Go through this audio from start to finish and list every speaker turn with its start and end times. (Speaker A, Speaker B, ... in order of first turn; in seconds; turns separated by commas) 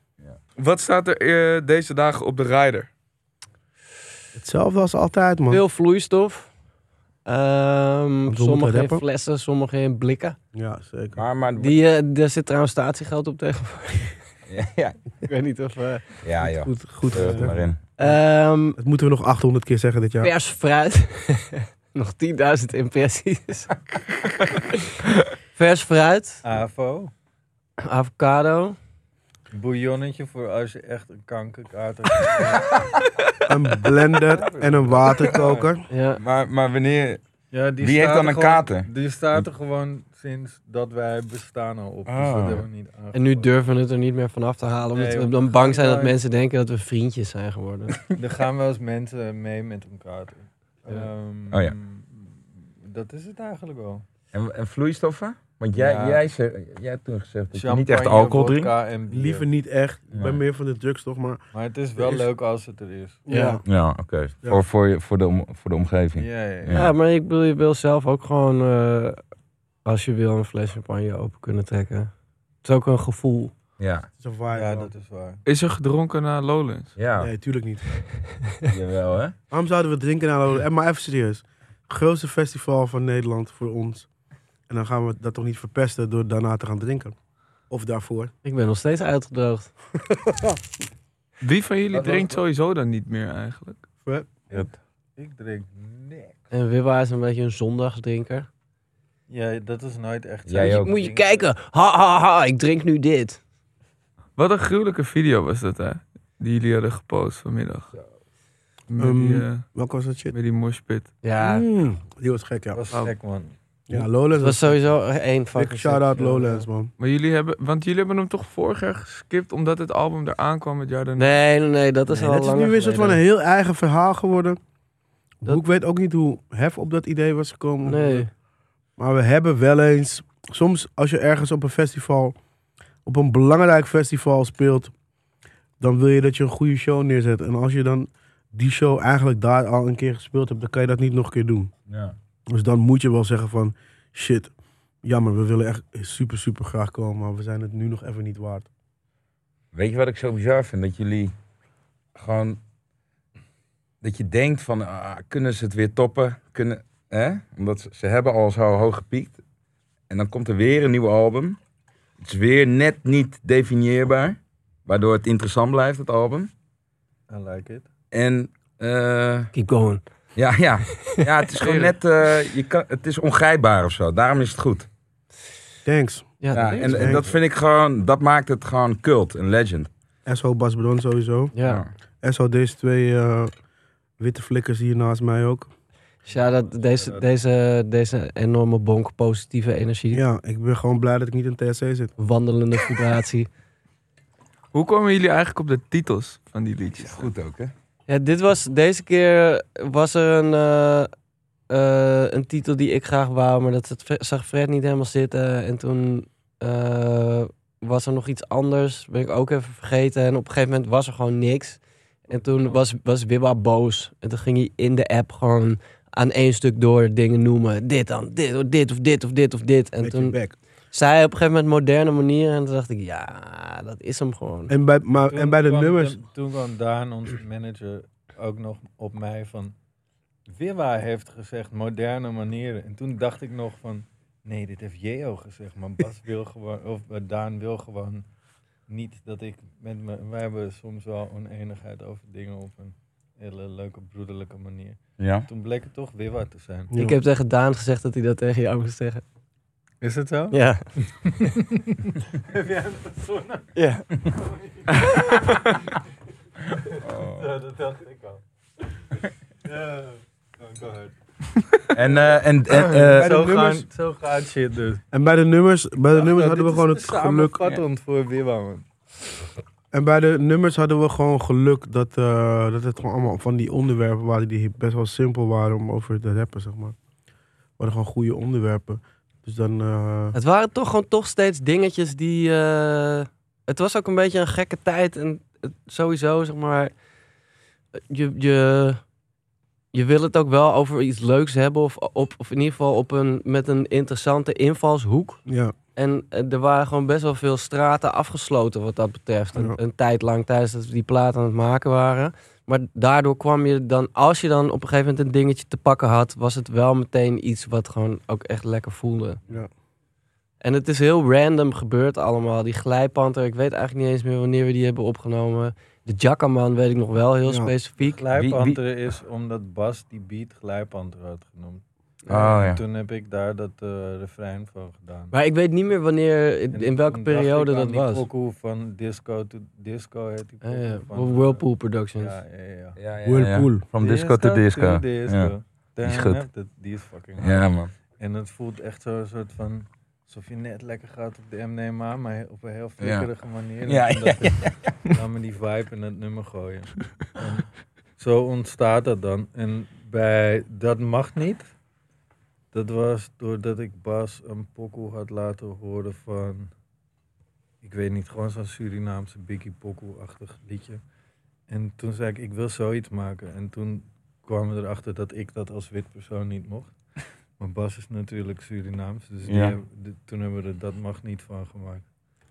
Speaker A: 0.6-2.9, Speaker B: 4.3-5.6, Speaker C: 5.5-6.5, Speaker C: 7.2-10.4, Speaker B: 8.3-9.0, Speaker B: 10.5-11.2, Speaker D: 11.1-11.8, Speaker C: 11.6-14.2, Speaker D: 14.5-15.0, Speaker C: 15.3-16.0, Speaker D: 16.2-17.8, Speaker B: 16.4-18.2, Speaker C: 18.0-18.8, Speaker B: 18.8-20.3, Speaker C: 20.2-23.7, Speaker C: 25.5-26.4, Speaker E: 26.4-27.1, Speaker C: 27.8-28.8, Speaker E: 29.5-32.8, Speaker B: 33.5-35.8, Speaker E: 34.2-35.7, Speaker C: 35.9-36.2, Speaker D: 36.2-37.2, Speaker E: 37.5-43.5, Speaker D: 37.8-39.5, Speaker D: 42.0-42.6, Speaker C: 43.1-48.0, Speaker E: 44.9-46.2, Speaker E: 48.1-54.0, Speaker D: 54.3-58.7, Speaker E: 55.7-56.2, Speaker E: 57.5-59.5, Speaker B: 59.1-61.4, Speaker D: 60.1-60.4, Speaker E: 61.5-63.2, Speaker B: 62.0-62.3, Speaker B: 63.3-63.6, Speaker C: 63.3-63.6, Speaker D: 63.6-66.9, Speaker E: 66.2-66.9, Speaker C: 66.7-69.2, Speaker C: 69.8-72.1, Speaker C: 72.6-73.5, Speaker D: 73.8-74.1, Speaker B: 74.2-74.9, Speaker E: 74.5-75.4, Speaker A: 75.5-76.9, Speaker D: 77.0-77.3, Speaker B: 77.2-77.9, Speaker D: 78.7-79.3, Speaker B: 79.5-84.1, Speaker B: 84.7-87.2, Speaker B: 87.7-88.3, Speaker C: 88.4-89.7, Speaker B: 90.1-90.6, Speaker A: 91.4-93.8, Speaker D: 91.9-92.4, Speaker B: 94.0-94.3, Speaker E: 94.5-96.4, Speaker C: 96.5-98.5, Speaker E: 99.3-101.5, Speaker D: 100.5-100.9, Speaker C: 100.5-103.4, Speaker A: 104.4-107.9, Speaker A: 108.9-109.7, Speaker B: 109.0-110.3, Speaker A: 110.3-111.1, Speaker C: 111.2-111.6, Speaker B: 111.4-112.8, Speaker E: 112.7-113.5, Speaker B: 113.9-114.8, Speaker C: 113.9-116.7, Speaker B: 115.5-116.9, Speaker A: 117.0-121.3, Speaker C: 121.2-123.2, Speaker B: 122.1-124.6, Speaker B: 125.4-128.3, Speaker C: 127.8-128.3, Speaker B: 129.0-132.3, Speaker B: 133.0-134.9, Speaker B: 135.8-141.7, Speaker D: 141.9-142.2, Speaker B: 142.5-144.5, Speaker B: 145.0-148.7, Speaker D: 149.7-151.3, Speaker D: 152.1-152.6, Speaker D: 154.0-159.4, Speaker D: 160.1-161.6, Speaker D: 162.2-166.5, Speaker E: 167.3-167.9, Speaker D: 168.1-169.5, Speaker C: 169.5-170.0, Speaker D: 170.3-174.9, Speaker C: 171.6-171.9, Speaker B: 175.8-177.3, Speaker C: 176.4-177.2, Speaker D: 176.5-179.9, Speaker B: 180.2-181.5, Speaker C: 181.5-181.8, Speaker D: 181.6-181.9, Speaker B: 182.2-183.5, Speaker B: 184.2-185.7, Speaker E: 186.2-187.3, Speaker C: 186.3-190.2, Speaker B: 190.1-192.1, Speaker C: 192.2-193.5, Speaker A: 194.7-197.3, Speaker D: 197.0-197.7, Speaker C: 198.1-201.1, Speaker C: 201.7-220.4, Speaker E: 212.3-212.8, Speaker B: 220.0-220.6, Speaker C: 220.9-224.7, Speaker B: 224.7-226.2, Speaker E: 225.2-229.7, Speaker E: 230.5-238.2, Speaker E: 238.9-246.9, Speaker D: 245.2-245.5, Speaker B: 246.9-247.2, Speaker C: 246.9-249.2, Speaker E: 250.0-253.7, Speaker C: 250.5-250.8, Speaker C: 253.7-254.1, Speaker E: 254.3-255.6, Speaker A: 254.9-255.8, Speaker D: 256.8-257.5, Speaker E: 256.9-258.4, Speaker E: 259.6-261.1, Speaker E: 261.8-262.2, Speaker D: 261.9-263.4, Speaker E: 262.7-265.0, Speaker B: 263.1-263.9, Speaker B: 265.1-267.6, Speaker E: 266.1-268.9, Speaker B: 269.9-276.9, Speaker B: 277.8-280.4, Speaker C: 280.3-286.9, Speaker C: 288.1-289.0, Speaker C: 289.9-295.4, Speaker B: 295.5-295.7, Speaker C: 295.9-309.4, Speaker C: 310.6-318.2, Speaker B: 317.5-317.7, Speaker E: 318.0-325.3, Speaker D: 318.3-318.8, Speaker D: 322.3-322.8, Speaker C: 325.3-328.2, Speaker E: 326.7-331.6, Speaker C: 330.6-332.4, Speaker E: 332.2-333.0, Speaker D: 333.0-336.4, Speaker B: 333.2-333.9, Speaker E: 334.0-351.7, Speaker D: 337.4-337.9, Speaker D: 343.0-343.3, Speaker D: 343.8-345.0, Speaker E: 352.7-356.7, Speaker E: 357.8-361.0, Speaker E: 361.7-366.9, Speaker E: 367.6-372.0, Speaker D: 369.4-369.8